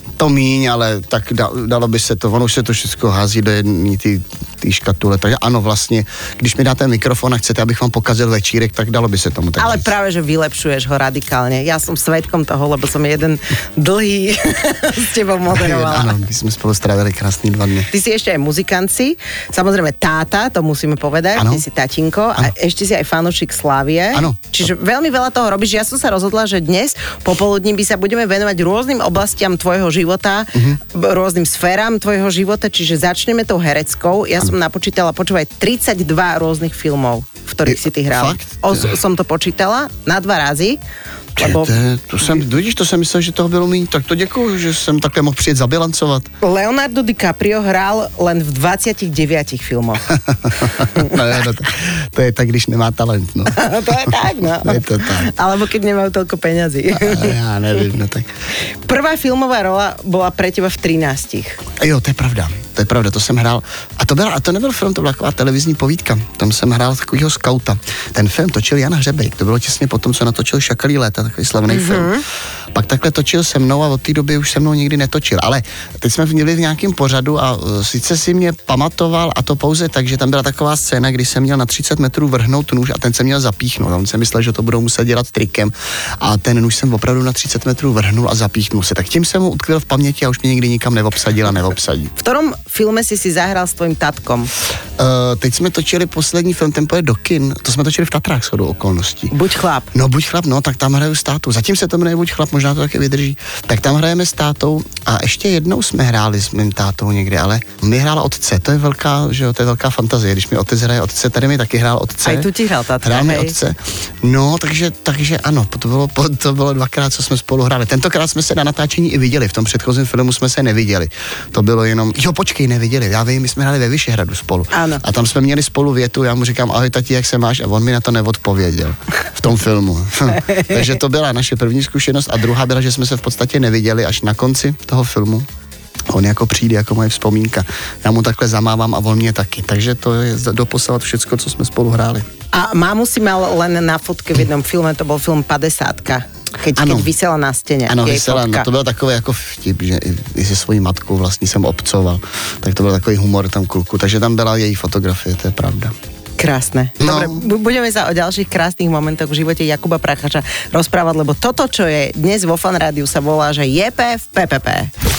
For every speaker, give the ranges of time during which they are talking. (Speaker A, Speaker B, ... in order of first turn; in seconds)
Speaker A: 0.2-9.9, 15.5-17.9, 21.4-21.6, 24.1-24.5, 37.7-38.9, 41.4-46.3, 50.1-55.3, 56.9-58.3, 61.8-72.2, 72.7-92.1, 95.0-99.3, 99.9-112.5, 113.0-135.4, 136.1-142.2, 146.8-147.1, 147.9-155.9, 157.0-157.4
Speaker B: 9.6-16.2, 17.9-40.8, 41.4-41.8, 46.4-50.1, 50.8-51.2, 53.5-57.3, 58.8-61.6, 71.7-72.2, 92.2-94.5, 99.3-99.9, 112.2-113.5, 124.7-125.0, 142.5-148.7, 156.4-164.9